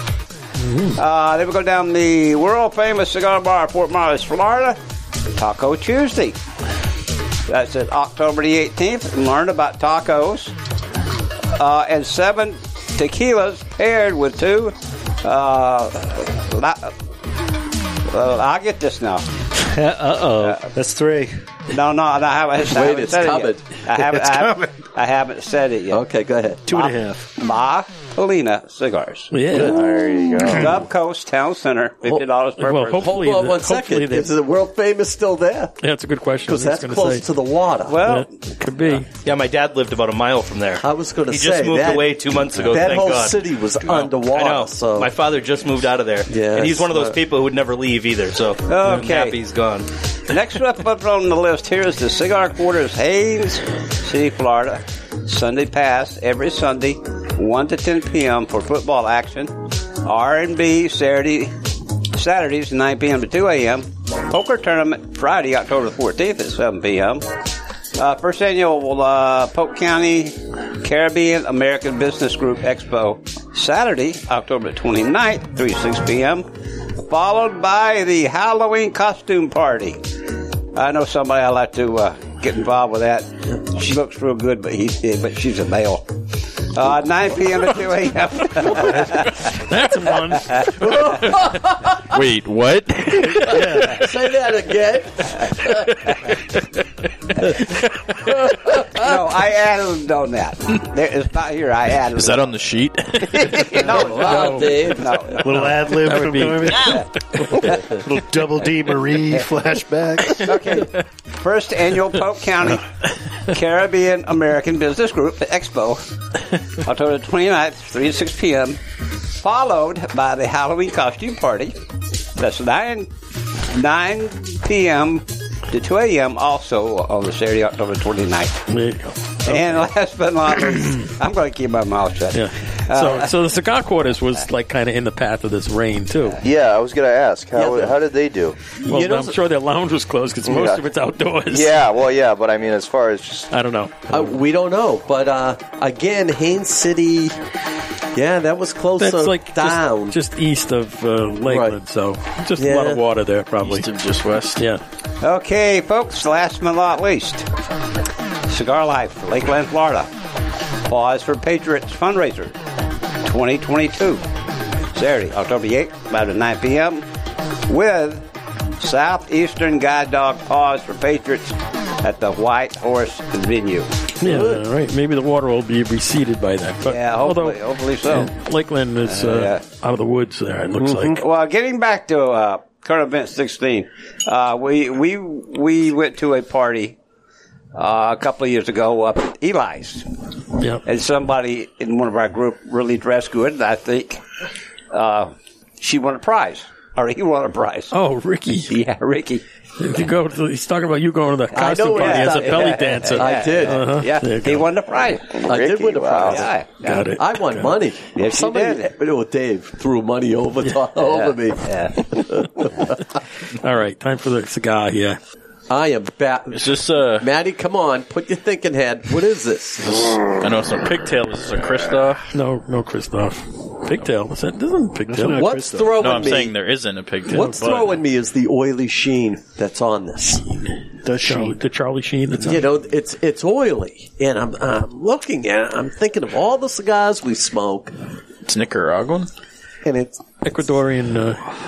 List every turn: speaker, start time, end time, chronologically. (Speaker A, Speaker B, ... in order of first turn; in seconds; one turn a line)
Speaker A: 0.6-1.0
Speaker B: 1.0-4.8
Speaker B: 5.3-6.4
Speaker B: 7.5-10.5
Speaker B: 11.6-16.9
Speaker B: 18.1-19.2
Speaker C: 19.8-21.4
Speaker B: 20.4-20.7
Speaker B: 21.7-26.1
Speaker D: 22.6-23.6
Speaker C: 23.9-24.8
Speaker D: 25.9-26.7
Speaker C: 26.7-27.3
Speaker B: 26.7-29.4
Speaker A: 29.3-29.8
Speaker D: 29.5-29.8
Speaker E: 29.6-30.8
Speaker B: 30.4-33.1
Speaker D: 32.0-35.8
Speaker A: 32.6-34.3
Speaker A: 35.8-37.3
Speaker D: 36.5-38.0
Speaker B: 37.9-38.3
Speaker A: 38.0-39.1
Speaker F: 39.2-49.9
Speaker D: 40.8-45.1
Speaker D: 46.3-47.2
Speaker B: 48.7-49.4
Speaker B: 50.3-61.5
Speaker B: 62.1-67.2
Speaker B: 68.0-76.5
Speaker B: 77.1-80.0
Speaker B: 80.7-86.1
Speaker B: 86.7-89.5
Speaker A: 89.5-91.3
Speaker D: 90.7-92.1
Speaker G: 92.1-93.8
Speaker D: 93.2-95.8
Speaker C: 93.5-94.0
Speaker D: 98.5-99.1
Speaker B: 99.0-102.5
Speaker G: 102.1-103.9
Speaker B: 103.3-105.5
Speaker D: 103.8-105.3
Speaker A: 104.1-107.8
Speaker C: 105.4-110.5
Speaker B: 110.4-112.9
Speaker B: 113.5-116.0
Speaker B: 116.8-118.8
Speaker B: 119.4-121.7
Speaker B: 122.4-123.1
Speaker B: 123.7-128.6
Speaker A: 128.7-129.8
Speaker B: 129.4-133.4
Speaker A: 132.3-136.4
Speaker E: 136.4-138.6
Speaker D: 137.6-138.0
Speaker A: 138.8-141.8
Speaker D: 138.9-139.4
Speaker E: 140.4-140.9
Speaker E: 141.5-143.5
Speaker A: 143.5-144.1
Speaker D: 144.1-147.4
Speaker D: 148.1-150.2
Speaker A: 149.0-153.9
Speaker D: 151.5-151.8
Speaker D: 152.6-153.0
Speaker G: 153.6-154.6
Speaker A: 154.6-154.8
Speaker B: 155.2-157.4
Speaker B: 158.5-160.1
Speaker B: 160.9-162.6
Speaker B: 163.2-164.2
Speaker B: 164.9-167.0
Speaker B: 167.7-168.2
Speaker B: 168.8-173.9
Speaker A: 174.2-181.2
Speaker D: 174.2-174.6
Speaker B: 176.9-178.3
Speaker B: 179.1-179.6
Speaker D: 180.8-181.2
Speaker B: 181.2-186.9
Speaker B: 187.7-190.1
Speaker A: 190.6-190.8
Speaker B: 190.8-194.2
Speaker B: 194.9-197.9
Speaker A: 197.9-198.8
Speaker B: 198.7-199.4
Speaker A: 199.8-204.7
Speaker B: 201.5-205.4
Speaker D: 201.6-204.0
Speaker E: 205.3-206.5
Speaker D: 205.4-206.5
Speaker B: 206.3-207.1
Speaker A: 206.8-207.7
Speaker D: 207.1-213.1
Speaker B: 208.1-208.9
Speaker B: 210.9-212.0
Speaker A: 213.5-215.2
Speaker D: 215.7-220.3
Speaker G: 216.5-217.3
Speaker G: 220.4-222.3
Speaker A: 222.3-225.4
Speaker C: 225.1-226.2
Speaker D: 225.3-226.6
Speaker G: 226.0-228.0
Speaker D: 227.3-230.4
Speaker C: 231.0-231.6
Speaker A: 231.2-232.7
Speaker D: 232.4-237.9
Speaker G: 238.4-239.3
Speaker D: 239.8-240.2
Speaker A: 240.4-241.5